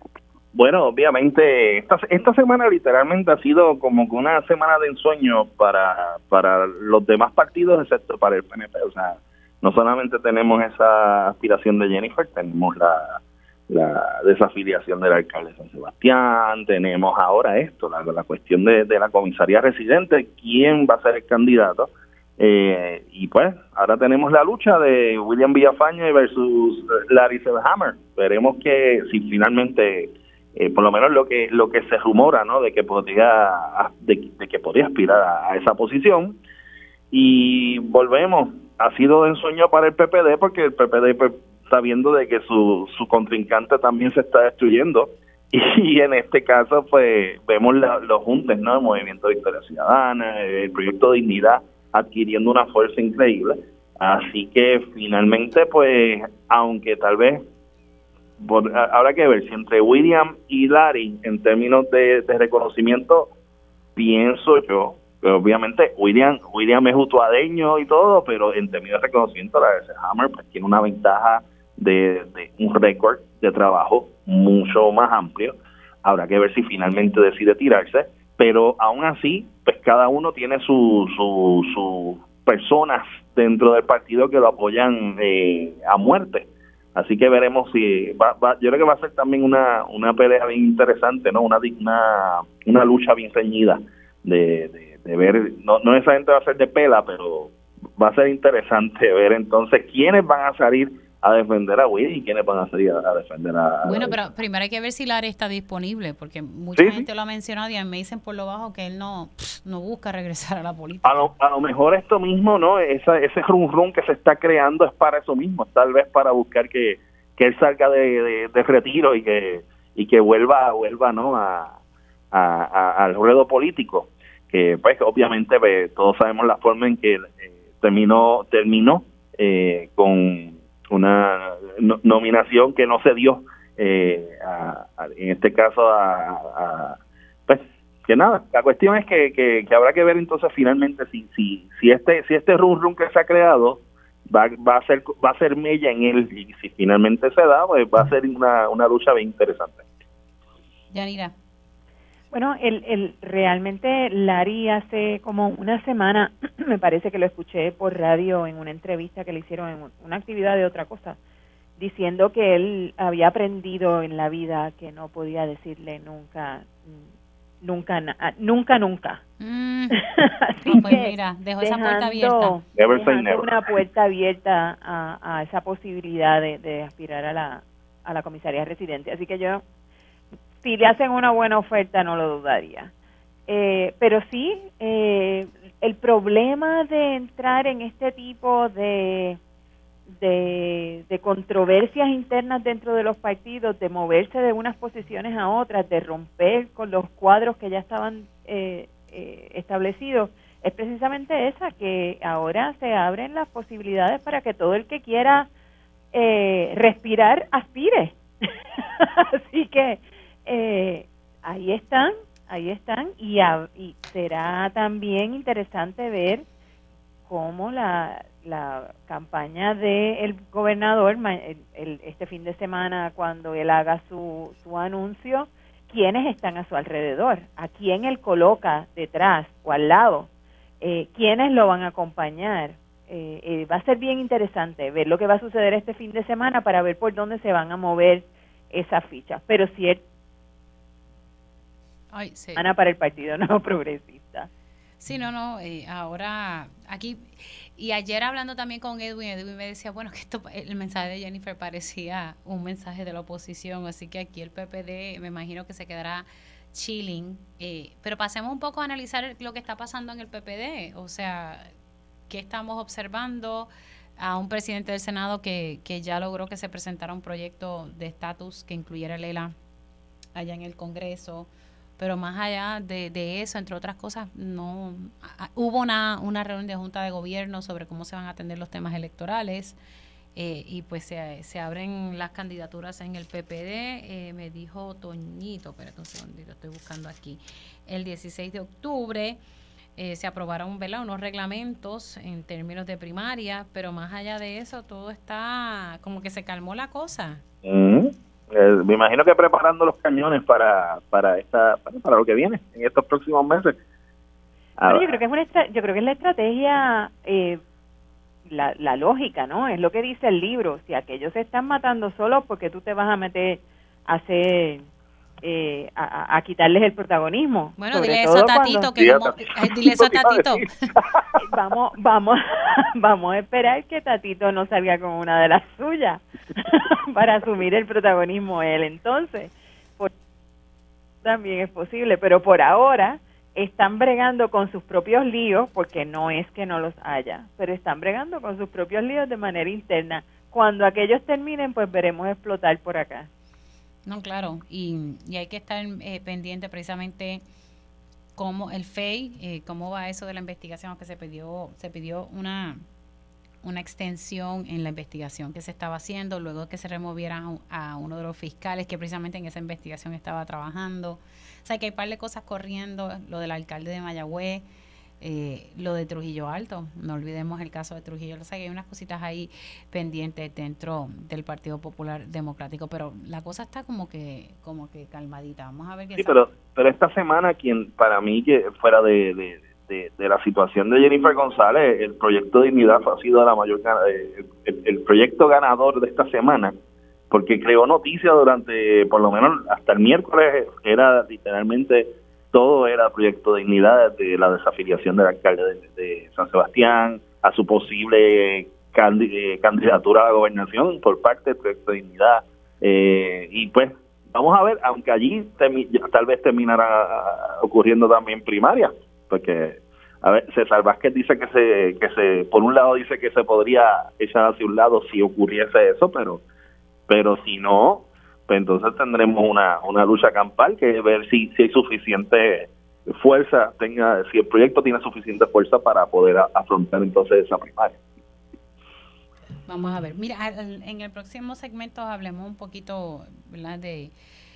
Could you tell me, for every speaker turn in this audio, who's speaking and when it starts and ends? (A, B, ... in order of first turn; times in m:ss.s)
0:00.6-0:36.4 A
0:37.1-0:57.4 A
0:58.4-1:03.3 A
1:04.0-1:44.2 A
1:43.8-1:51.2 B
1:46.8-1:47.1 A
1:51.0-2:01.8 A
2:02.3-2:29.8 A
2:30.9-2:31.3 B
2:32.3-2:41.2 C
2:41.8-2:47.1 C
2:47.6-2:49.2 C
2:49.4-2:50.0 B
2:50.0-2:59.6 C
2:50.6-2:52.6 B
2:52.7-2:53.5 A
3:00.6-3:02.9 C
3:03.5-3:09.4 C
3:10.2-3:25.5 C
3:26.1-3:36.4 C
3:37.3-3:50.3 C
3:50.8-4:00.0 C
4:02.1-4:02.7 B
4:02.6-4:04.5 C
4:05.0-4:21.7 B
4:22.3-4:29.5 B
4:30.4-4:39.8 B
4:40.4-4:49.4 B
4:50.0-4:57.4 B
4:57.6-5:03.8 A
5:04.8-5:05.1 A
5:04.8-5:07.6 C
5:08.5-5:14.8 C
5:15.4-5:18.3 C
5:17.8-5:20.7 B
5:17.9-5:21.4 A
5:21.4-5:30.1 C
5:31.2-5:43.3 C
5:44.1-5:47.4 B
5:48.4-5:52.8 B
5:53.6-6:04.6 B
6:05.2-6:16.4 B
6:16.2-6:26.8 A
6:27.3-6:56.4 A
6:57.1-7:08.0 A
7:09.7-7:14.1 B